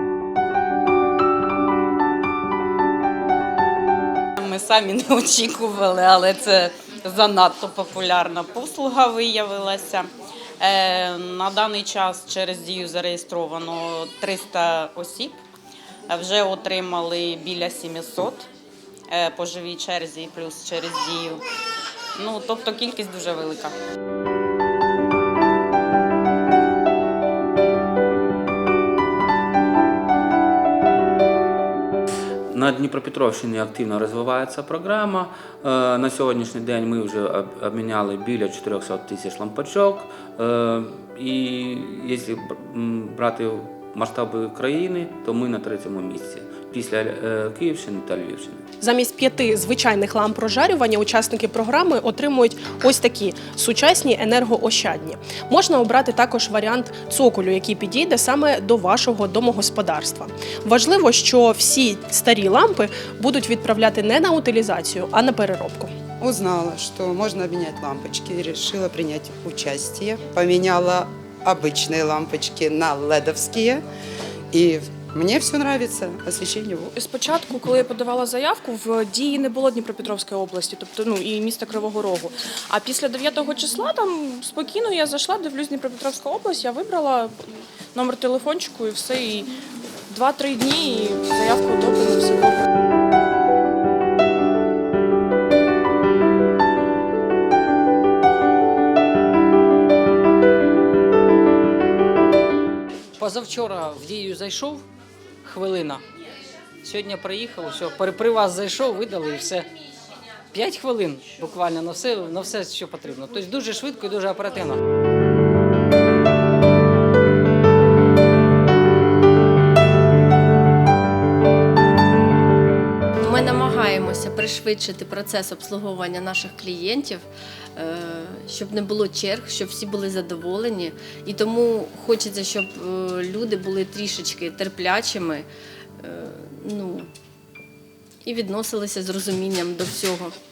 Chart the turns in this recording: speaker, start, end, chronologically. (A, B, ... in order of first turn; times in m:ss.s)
0:04.4-0:10.1 A
0:10.6-0:15.4 A
0:16.1-0:18.5 A
0:19.1-0:21.4 A
0:22.2-0:23.7 A
0:32.5-0:48.6 B
0:48.8-1:05.9 C
1:06.2-1:13.8 D
1:14.5-1:16.9 D
1:17.0-1:27.3 E
1:27.9-1:29.5 E
1:30.1-1:32.6 E
1:43.2-1:44.8 F
1:45.4-1:46.0 F
1:46.8-1:49.7 F
1:50.5-1:54.8 F
2:03.2-2:15.5 G
2:16.0-2:17.1 G
2:18.2-2:20.3 G